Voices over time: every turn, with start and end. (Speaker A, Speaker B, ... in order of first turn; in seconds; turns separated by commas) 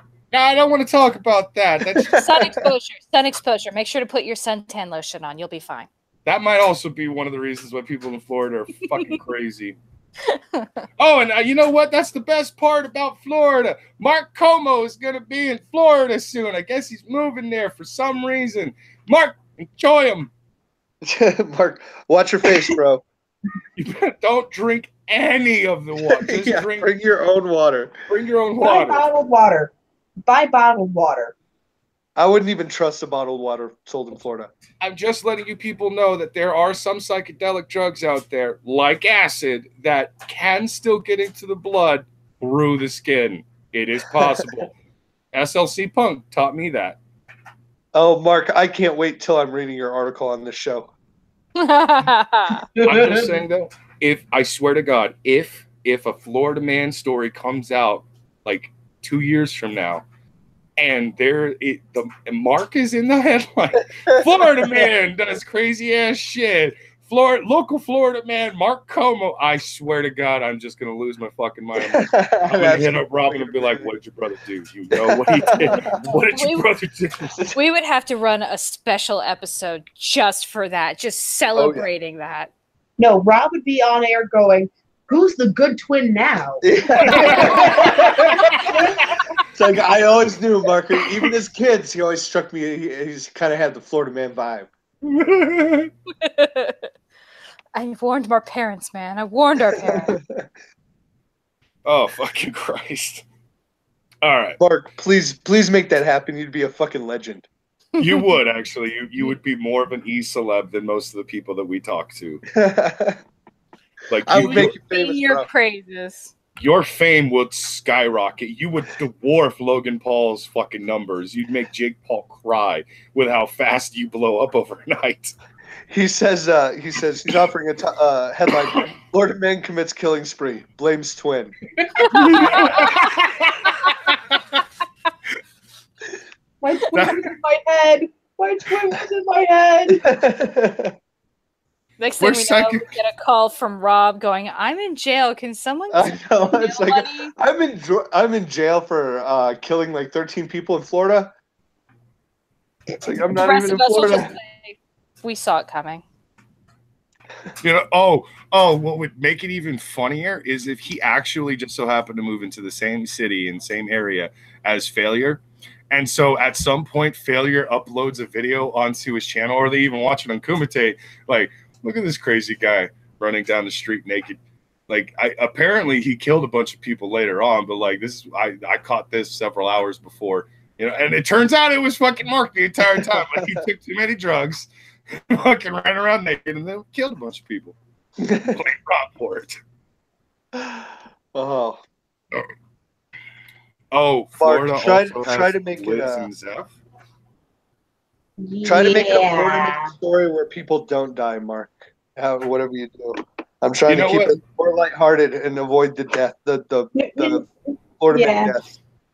Speaker A: 0.3-2.2, Speaker B: 1.9-2.7, Speaker C: 2.1-5.9, Speaker A: 6.2-9.8, Speaker C: 10.3-10.7, Speaker A: 11.0-20.3, Speaker B: 21.0-23.0, Speaker A: 23.8-26.9, Speaker B: 26.2-27.9, Speaker A: 28.1-29.1, Speaker D: 28.6-29.7, Speaker D: 30.2-31.3, Speaker B: 32.1-34.5, Speaker A: 34.8-44.7, Speaker A: 45.3-47.0, Speaker B: 47.9-50.9, Speaker C: 51.6-52.6, Speaker D: 52.8-53.4, Speaker A: 52.8-60.0, Speaker A: 60.8-77.3, Speaker B: 71.8-73.9, Speaker B: 74.9-76.2, Speaker C: 76.3-76.7, Speaker B: 77.3-77.6, Speaker C: 77.5-82.5, Speaker B: 81.5-81.9, Speaker D: 83.0-88.8, Speaker B: 86.6-88.8, Speaker A: 87.0-88.9, Speaker B: 89.5-94.7, Speaker A: 95.0-95.9, Speaker C: 96.2-96.9, Speaker C: 97.7-100.2, Speaker B: 99.8-100.5, Speaker A: 101.8-103.2, Speaker A: 104.2-104.6, Speaker B: 104.6-107.5, Speaker C: 108.0-108.2, Speaker A: 108.0-112.4, Speaker B: 112.5-113.2, Speaker A: 114.1-114.7, Speaker B: 114.2-115.5, Speaker C: 114.3-116.3, Speaker A: 116.6-125.3, Speaker B: 125.9-131.5, Speaker A: 128.6-128.9, Speaker D: 131.9-132.6, Speaker C: 132.1-133.0, Speaker A: 132.1-134.6, Speaker D: 136.6-140.0, Speaker A: 136.9-137.3, Speaker B: 139.9-140.9, Speaker C: 142.0-147.3, Speaker A: 142.2-142.9, Speaker B: 145.9-151.3, Speaker B: 153.0-154.3, Speaker C: 153.3-156.0, Speaker A: 157.6-187.8, Speaker B: 182.8-183.6, Speaker B: 188.2-188.6, Speaker A: 188.5-189.6, Speaker B: 190.5-191.8, Speaker A: 193.9-196.7, Speaker B: 194.4-196.3, Speaker D: 198.4-199.9, Speaker B: 198.6-207.4, Speaker A: 203.9-204.4, Speaker D: 206.9-207.4, Speaker B: 208.0-208.6, Speaker D: 208.1-208.6